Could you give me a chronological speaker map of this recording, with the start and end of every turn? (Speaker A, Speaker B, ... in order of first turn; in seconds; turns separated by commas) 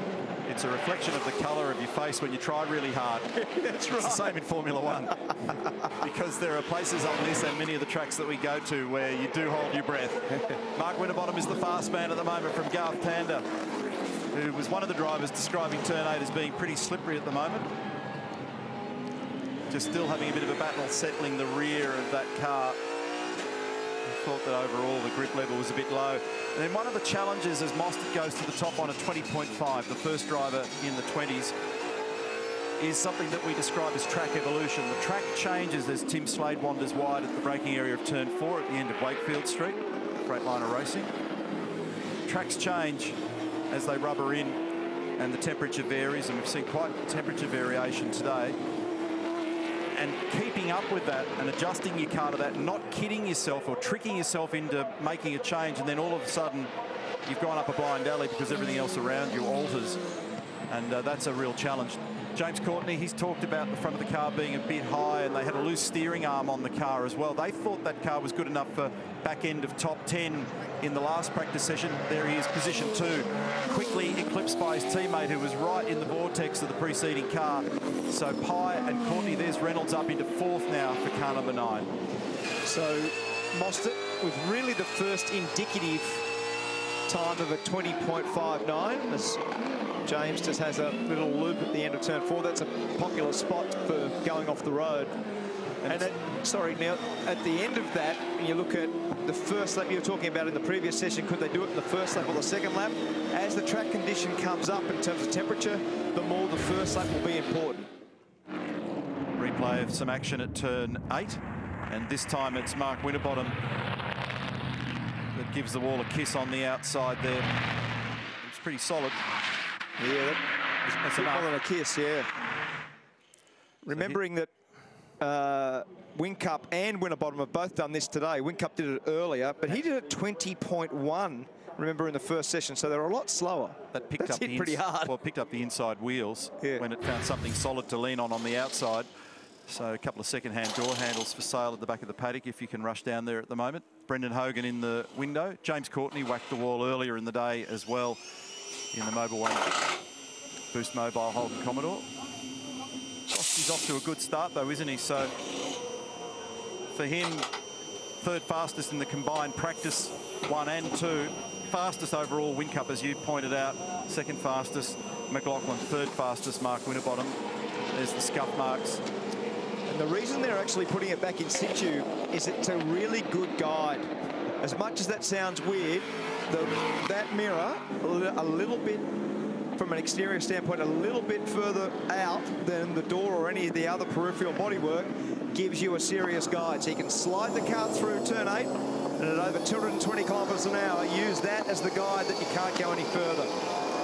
Speaker A: 0.4-5.3, Speaker B: 3.4-4.3, Speaker A: 5.8-13.5, Speaker A: 14.3-17.7, Speaker A: 19.7-22.8, Speaker A: 24.0-31.5, Speaker A: 32.8-41.1, Speaker A: 42.2-43.2, Speaker A: 43.7-44.6, Speaker A: 45.2-48.5, Speaker A: 49.9-56.7, Speaker A: 57.2-60.0, Speaker A: 60.7-81.9, Speaker B: 82.6-86.2, Speaker B: 87.1-89.4, Speaker B: 90.0-95.1, Speaker A: 95.8-96.1, Speaker B: 95.9-107.9, Speaker A: 109.3-113.6, Speaker A: 115.3-117.5, Speaker A: 118.4-119.2, Speaker B: 120.0-120.4, Speaker A: 120.8-121.5, Speaker B: 121.1-122.3, Speaker B: 123.8-124.5, Speaker B: 125.2-135.1, Speaker A: 133.9-139.1, Speaker B: 136.6-136.8, Speaker A: 139.7-148.2, Speaker A: 148.9-149.7, Speaker A: 150.7-152.1, Speaker A: 153.3-155.3, Speaker A: 156.9-157.5, Speaker A: 158.2-167.4, Speaker A: 167.9-169.0, Speaker B: 169.9-179.1, Speaker B: 179.8-193.5